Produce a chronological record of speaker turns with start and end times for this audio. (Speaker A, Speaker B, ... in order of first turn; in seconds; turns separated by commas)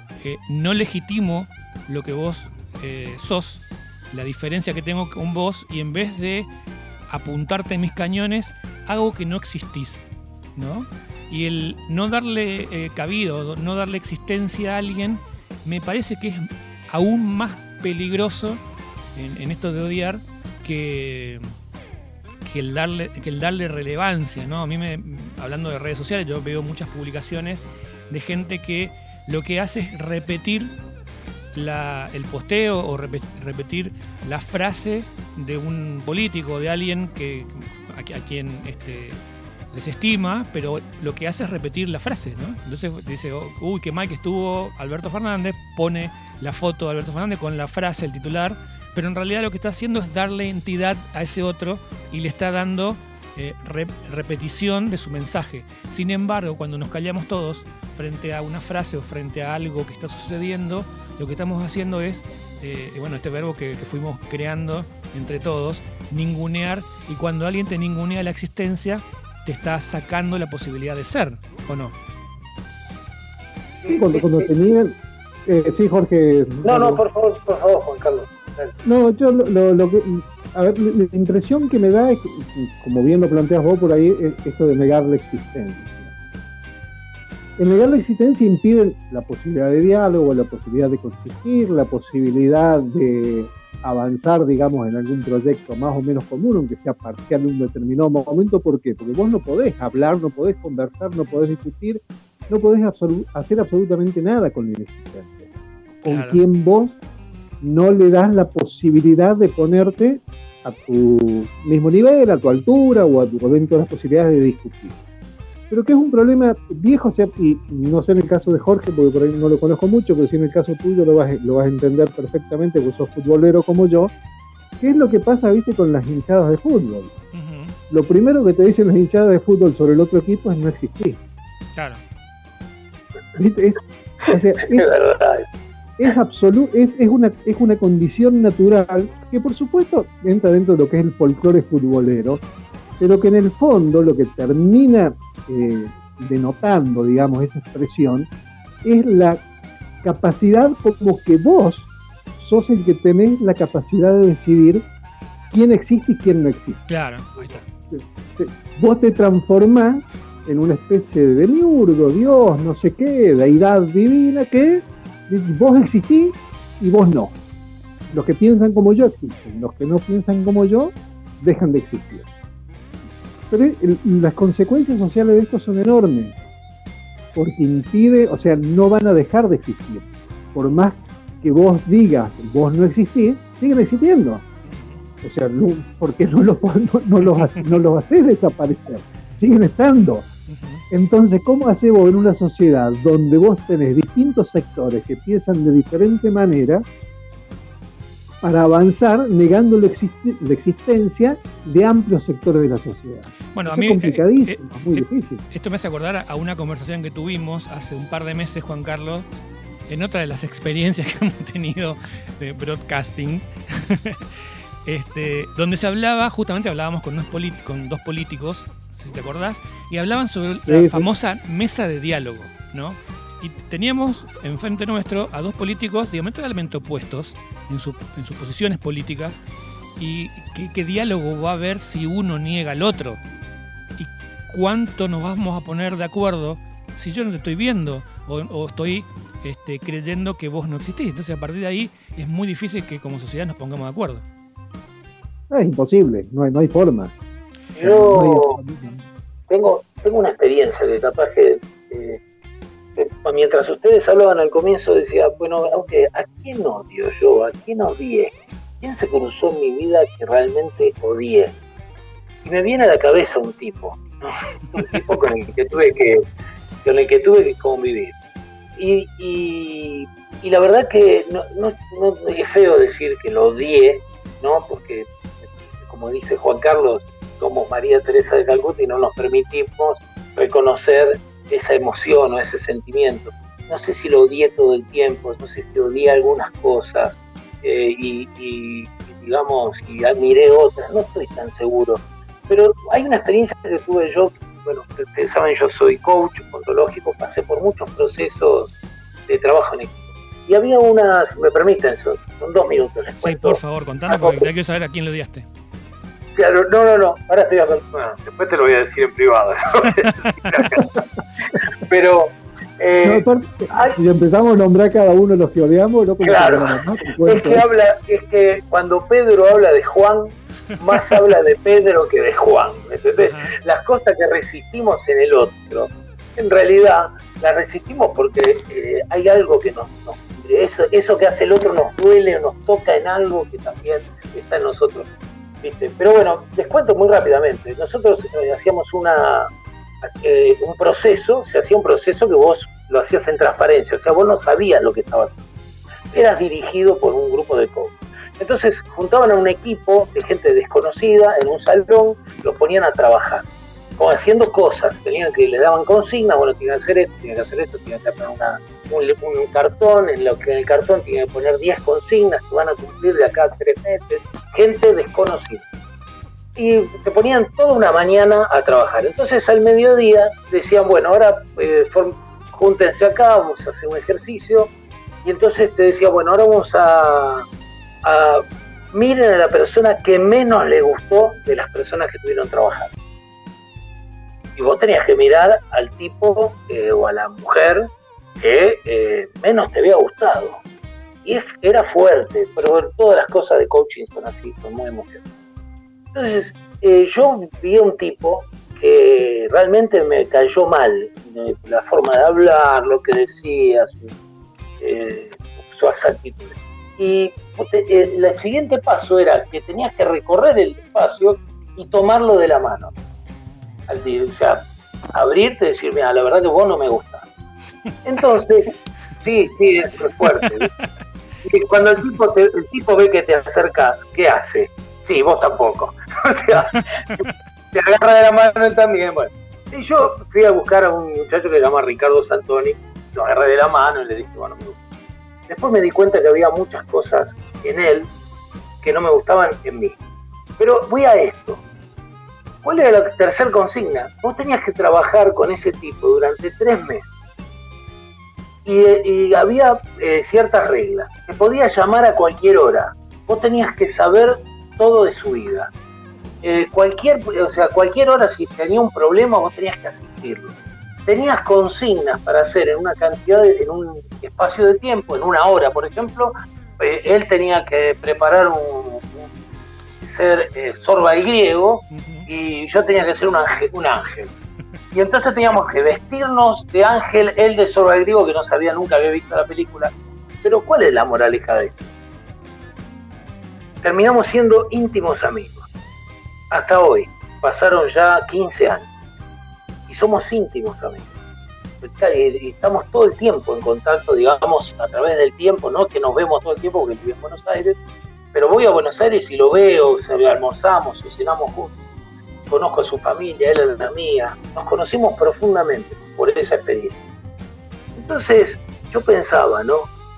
Speaker A: 0.2-6.5, Speaker A: 7.1-18.6, Speaker A: 19.1-21.5, Speaker A: 22.4-30.7, Speaker A: 31.5-39.2, Speaker A: 39.7-71.9, Speaker B: 73.8-74.5, Speaker C: 73.8-77.0, Speaker B: 76.6-78.7, Speaker C: 78.8-86.1, Speaker C: 87.6-105.5, Speaker C: 106.0-107.0, Speaker A: 106.0-106.4, Speaker C: 107.6-114.9, Speaker C: 115.7-124.1, Speaker C: 124.8-127.1, Speaker A: 127.3-127.8, Speaker C: 127.9-131.2, Speaker A: 131.7-132.0, Speaker C: 133.3-134.8, Speaker B: 134.3-135.5, Speaker C: 136.0-142.4, Speaker C: 143.0-148.3, Speaker C: 148.8-149.4, Speaker C: 150.0-154.8, Speaker C: 155.5-156.8, Speaker A: 156.9-157.6, Speaker C: 157.9-167.3, Speaker C: 168.1-172.3, Speaker C: 173.5-176.3, Speaker C: 177.3-184.4, Speaker A: 184.6-185.0, Speaker C: 185.2-190.3, Speaker A: 190.5-190.8, Speaker C: 190.9-196.8, Speaker C: 198.4-205.4, Speaker A: 203.5-209.3, Speaker A: 209.9-229.4, Speaker C: 220.7-221.1, Speaker A: 230.0-233.2, Speaker A: 234.0-244.2, Speaker C: 245.5-247.1, Speaker B: 247.7-248.6, Speaker C: 247.8-249.1, Speaker B: 249.5-252.2, Speaker B: 252.9-261.5, Speaker B: 262.4-266.2, Speaker B: 266.8-268.1, Speaker B: 268.8-298.7, Speaker B: 299.3-304.5, Speaker A: 303.2-305.5, Speaker B: 306.4-314.0, Speaker C: 313.0-317.6, Speaker B: 316.2-335.1, Speaker A: 323.2-323.5, Speaker B: 335.6-339.5, Speaker B: 340.0-345.5, Speaker B: 346.1-353.4, Speaker B: 354.0-365.6, Speaker B: 366.6-374.7, Speaker B: 375.2-377.4, Speaker B: 378.0-382.9, Speaker B: 384.6-387.9, Speaker B: 388.4-390.6, Speaker B: 391.2-395.2, Speaker B: 396.1-404.1, Speaker B: 404.8-412.9, Speaker B: 413.9-417.3, Speaker B: 418.0-420.7, Speaker A: 420.3-420.9, Speaker B: 421.4-434.8, Speaker A: 426.7-427.3, Speaker B: 435.5-438.1, Speaker B: 438.8-439.9, Speaker B: 440.6-441.6, Speaker B: 442.6-447.1, Speaker B: 448.6-455.7, Speaker B: 456.4-460.5, Speaker B: 461.1-469.3, Speaker B: 470.0-474.3, Speaker A: 471.9-472.3, Speaker B: 474.9-479.9, Speaker B: 480.4-481.9, Speaker B: 483.8-485.7, Speaker B: 486.5-488.9, Speaker B: 489.9-491.1, Speaker B: 491.8-497.7, Speaker B: 498.3-501.7, Speaker B: 502.5-507.0, Speaker B: 508.0-509.9